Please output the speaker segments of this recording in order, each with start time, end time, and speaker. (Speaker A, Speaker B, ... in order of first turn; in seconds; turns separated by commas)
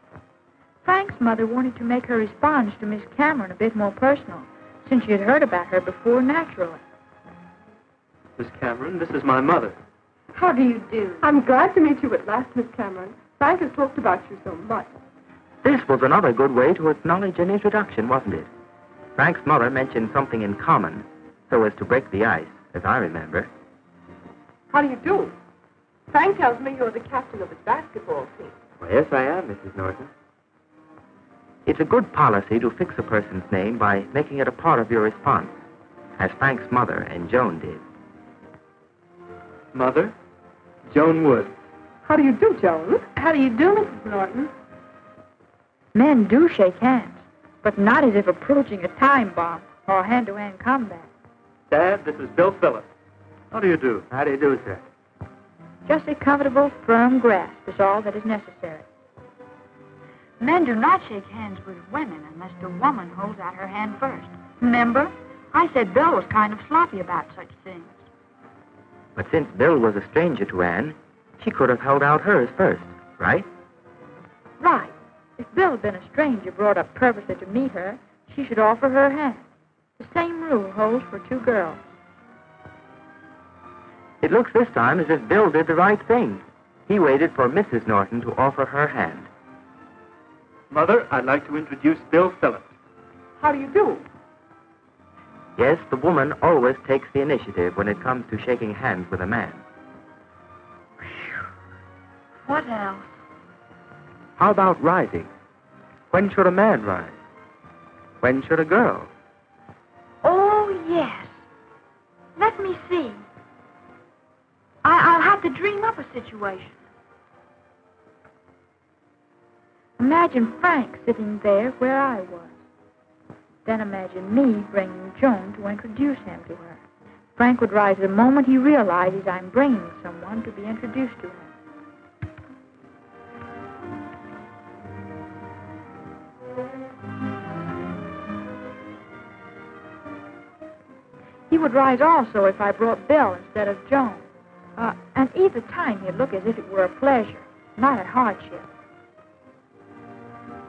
Speaker A: 0.8-6.8, Speaker B: 8.4-9.8, Speaker A: 10.3-11.2, Speaker C: 11.2-14.9, Speaker D: 15.6-18.5, Speaker D: 19.2-23.5, Speaker C: 24.7-25.3, Speaker C: 26.1-28.6, Speaker D: 28.8-30.1, Speaker D: 31.7-35.5, Speaker D: 36.2-37.8, Speaker B: 39.7-40.1, Speaker B: 40.9-41.5, Speaker C: 42.0-44.5, Speaker A: 45.9-51.1, Speaker B: 51.7-52.9, Speaker B: 53.5-54.1, Speaker D: 54.1-54.8, Speaker A: 55.9-58.9, Speaker A: 60.4-68.0, Speaker D: 69.2-73.5, Speaker A: 74.6-79.5, Speaker A: 80.0-81.8, Speaker D: 84.2-89.3, Speaker B: 90.7-92.7, Speaker C: 93.4-94.0, Speaker D: 95.6-99.6, Speaker A: 102.5-103.1, Speaker D: 104.4-105.3, Speaker D: 106.1-107.2, Speaker D: 108.2-109.1, Speaker A: 110.2-111.3, Speaker A: 112.4-113.2, Speaker A: 114.8-116.8, Speaker A: 120.0-122.5, Speaker A: 123.7-126.8, Speaker A: 127.4-131.5, Speaker A: 141.5-144.2, Speaker A: 144.8-148.7